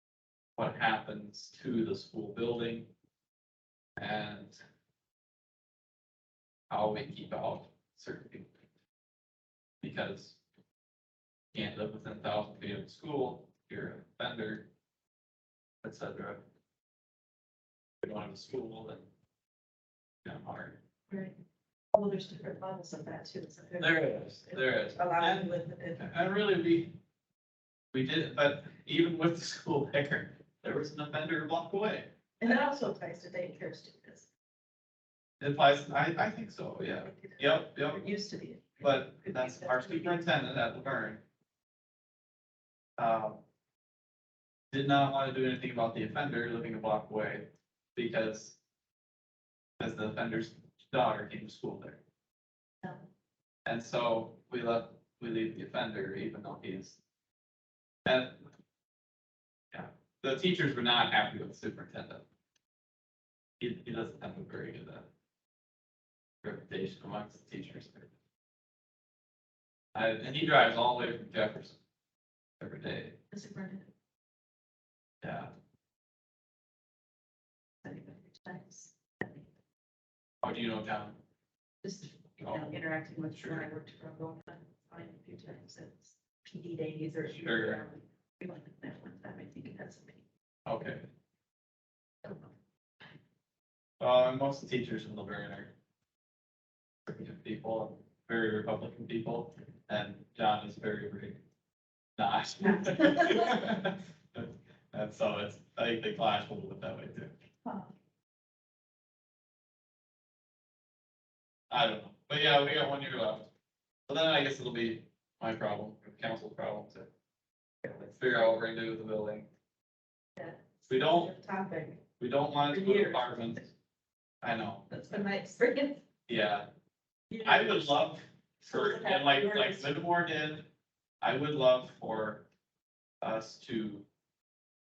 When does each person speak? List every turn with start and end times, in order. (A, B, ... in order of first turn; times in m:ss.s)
0:00.6-0:02.9 A
0:04.0-0:04.6 A
0:06.7-0:08.5 A
0:09.8-0:10.4 A
0:11.5-0:14.7 A
0:15.8-0:16.4 A
0:18.0-0:19.0 A
0:20.2-0:20.8 A
0:21.1-0:21.3 B
0:21.9-0:26.0 B
0:23.8-0:26.9 A
0:27.9-0:32.6 A
0:32.4-0:34.2 B
0:35.4-0:38.0 A
0:37.1-0:40.2 B
0:38.8-0:41.2 A
0:43.0-0:43.4 A
0:44.7-0:48.6 A
0:49.8-0:52.0 A
0:53.6-0:57.0 A
0:58.0-0:58.4 A
0:59.7-1:02.2 A
1:03.6-1:05.0 A
1:06.4-1:08.1 A
1:09.9-1:11.8 A
1:12.6-1:13.2 A
1:13.3-1:13.9 B
1:15.2-1:15.5 A
1:17.8-1:19.4 B
1:20.4-1:21.2 A
1:21.8-1:30.2 B
1:22.4-1:22.8 A
1:23.3-1:23.7 A
1:27.3-1:27.8 A
1:30.6-1:31.1 A
1:32.2-1:32.5 B
1:34.0-1:35.7 A
1:37.1-1:41.4 A
1:42.2-1:47.3 A
1:42.7-1:43.5 B
1:47.6-1:47.9 B
1:51.7-1:53.5 A
1:54.1-1:57.1 A
1:57.9-1:59.5 A
2:00.4-2:02.0 B
2:00.9-2:01.3 A
2:02.2-2:03.7 A
2:02.7-2:03.4 B
2:04.4-2:05.2 A
2:04.9-2:06.0 B
2:06.3-2:06.6 A
2:07.3-2:07.8 B
2:07.4-2:10.6 A
2:08.6-2:09.9 B
2:11.2-2:12.4 A
2:13.2-2:14.0 A